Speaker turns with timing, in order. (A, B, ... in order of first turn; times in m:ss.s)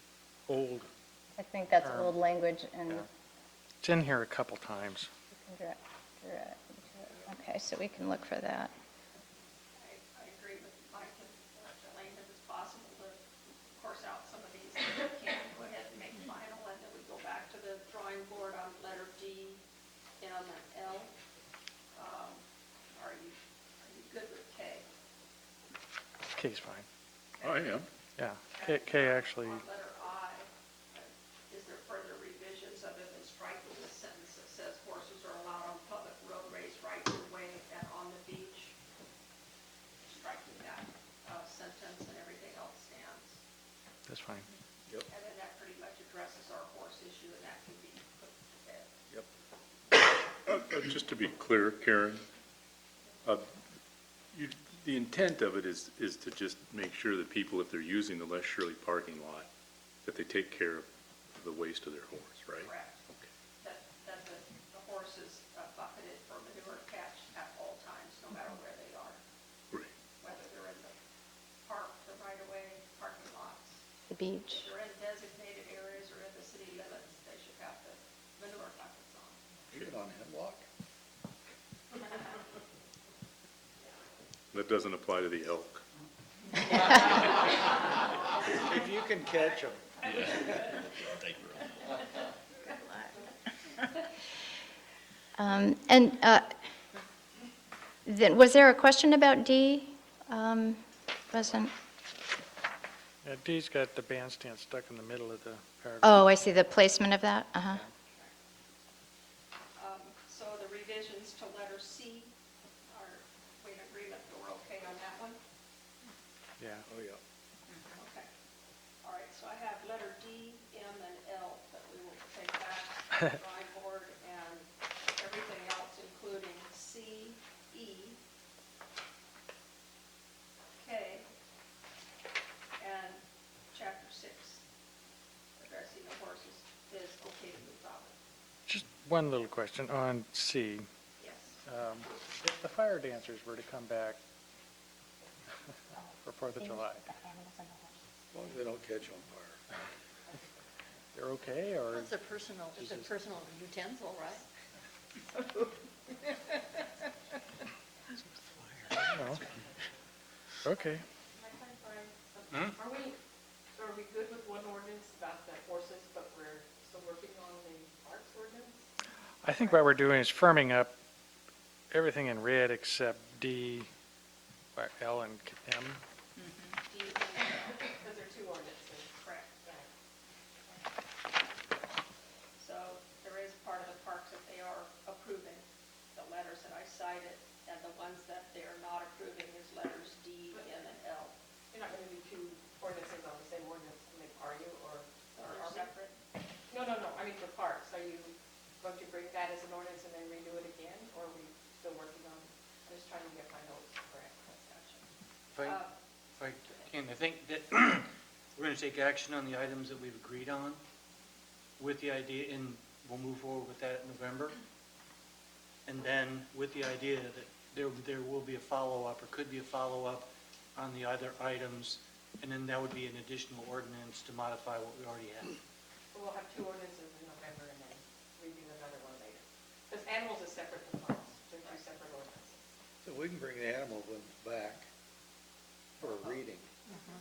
0:00.5-0:00.9 A
0:01.4-0:03.0 B
0:01.8-0:02.1 A
0:03.8-0:05.1 A
0:05.3-0:08.7 B
0:09.8-0:19.6 C
0:20.2-0:21.1 C
0:21.9-0:24.9 C
0:26.4-0:26.9 A
0:27.4-0:27.8 C
0:27.4-0:27.9 D
0:28.2-0:29.6 A
0:28.5-0:38.7 C
0:40.1-0:43.4 C
0:44.1-0:44.5 A
0:45.1-0:48.9 C
0:50.5-0:52.3 D
0:54.3-0:59.5 D
1:00.0-1:02.7 D
1:02.6-1:03.0 C
1:03.6-1:09.2 C
1:10.2-1:10.9 C
1:11.6-1:13.8 C
1:14.1-1:14.7 B
1:14.5-1:19.4 C
1:19.7-1:20.6 E
1:24.5-1:25.8 D
1:28.5-1:29.9 F
1:30.0-1:31.7 D
1:35.4-1:36.5 B
1:38.1-1:41.7 B
1:43.2-1:46.2 A
1:46.0-1:47.8 B
1:49.8-1:52.3 C
1:52.9-1:55.4 C
1:56.6-1:56.9 A
1:56.9-1:57.2 E
1:57.9-1:58.3 C
1:59.0-2:08.2 C
2:10.8-2:11.3 C
2:12.8-2:14.6 C
2:15.6-2:18.1 C
2:18.7-2:20.9 A
2:21.2-2:21.6 C
2:21.6-2:24.2 A
2:26.2-2:27.1 A
2:26.6-2:27.9 B
2:28.3-2:29.6 E
2:31.1-2:32.1 A
2:32.0-2:34.4 G
2:32.8-2:33.1 A
2:38.6-2:38.9 F
2:39.0-2:39.6 H
2:39.1-2:39.5 A
2:40.6-2:41.0 A
2:41.3-2:43.2 H
2:43.7-2:48.8 H
2:49.4-2:50.9 A
2:51.9-2:53.9 A
2:54.8-2:56.0 A
2:56.8-2:57.8 C
2:57.7-2:59.1 H
2:59.2-2:59.5 C
3:02.6-3:11.3 C
3:11.7-3:15.9 H
3:15.3-3:16.2 C
3:16.7-3:24.5 H
3:24.5-3:25.0 C
3:25.5-3:25.8 F
3:25.6-3:25.9 C
3:26.4-3:30.8 F
3:31.8-3:34.6 F
3:35.9-3:45.6 F
3:46.1-3:52.6 H
3:53.0-3:54.9 E
3:56.0-3:56.7 E
3:56.0-3:56.4 C